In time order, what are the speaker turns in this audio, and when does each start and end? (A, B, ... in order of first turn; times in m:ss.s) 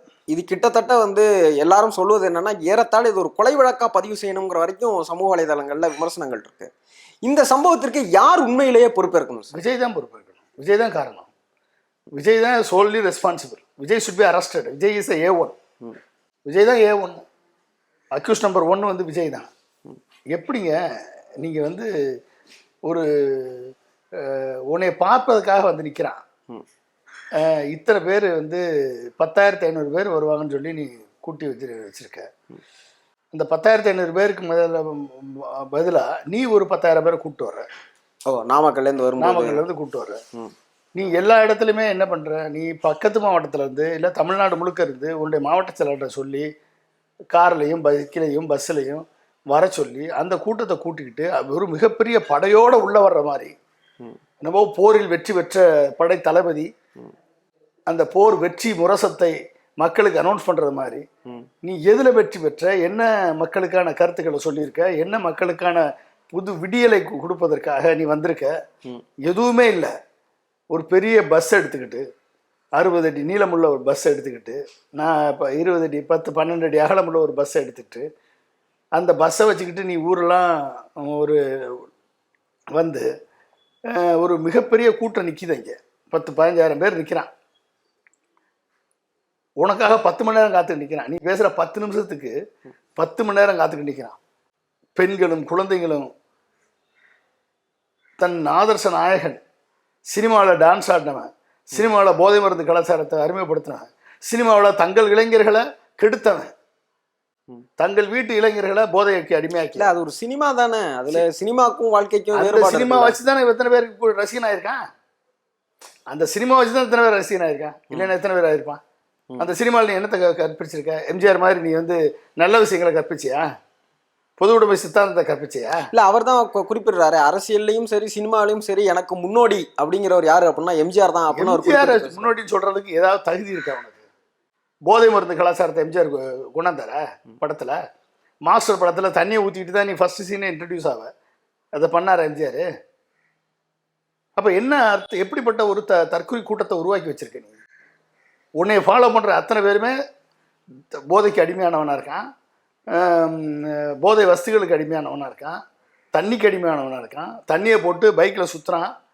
0:00.3-0:06.7 A
0:07.2-0:09.6 A
0:09.5-0:11.3 B
0:12.2-0:15.6 B
0:16.5-0:17.2 B
0:18.2-0:19.5 B
0:20.3-0:20.8 B
0:21.4-0:21.9 B
0:22.9-0:26.2 B
0:27.4-0:28.6 B
0:29.2-0:32.3 B
0:33.3-0:37.7 B
0:38.3-0:39.6 A
0:39.2-0:40.2 B
0:41.0-0:46.5 B
0:47.3-0:53.5 B
0:54.4-0:56.7 B
0:57.9-1:01.0 B
1:01.6-1:08.5 B
1:09.2-1:09.9 B
1:10.7-1:12.0 B
1:12.8-1:18.1 B
1:19.0-1:21.8 B
1:22.8-1:23.1 B
1:24.0-1:27.3 B
1:29.6-1:32.3 B
1:33.0-1:34.2 B
1:35.0-1:36.1 B
1:38.2-1:39.4 B
1:40.1-1:46.5 B
1:47.8-1:49.9 B
1:49.8-1:53.2 A
1:52.4-1:54.8 B
1:56.1-1:58.8 B
1:59.4-2:03.5 B
2:04.4-2:05.8 B
2:05.9-2:12.3 A
2:11.3-2:14.0 B
2:14.9-2:17.8 B
2:18.5-2:21.1 B
2:21.8-2:22.7 B
2:24.4-2:27.5 B
2:28.6-2:29.9 B
2:30.9-2:32.2 B
2:32.9-2:35.6 B
2:36.1-2:38.9 B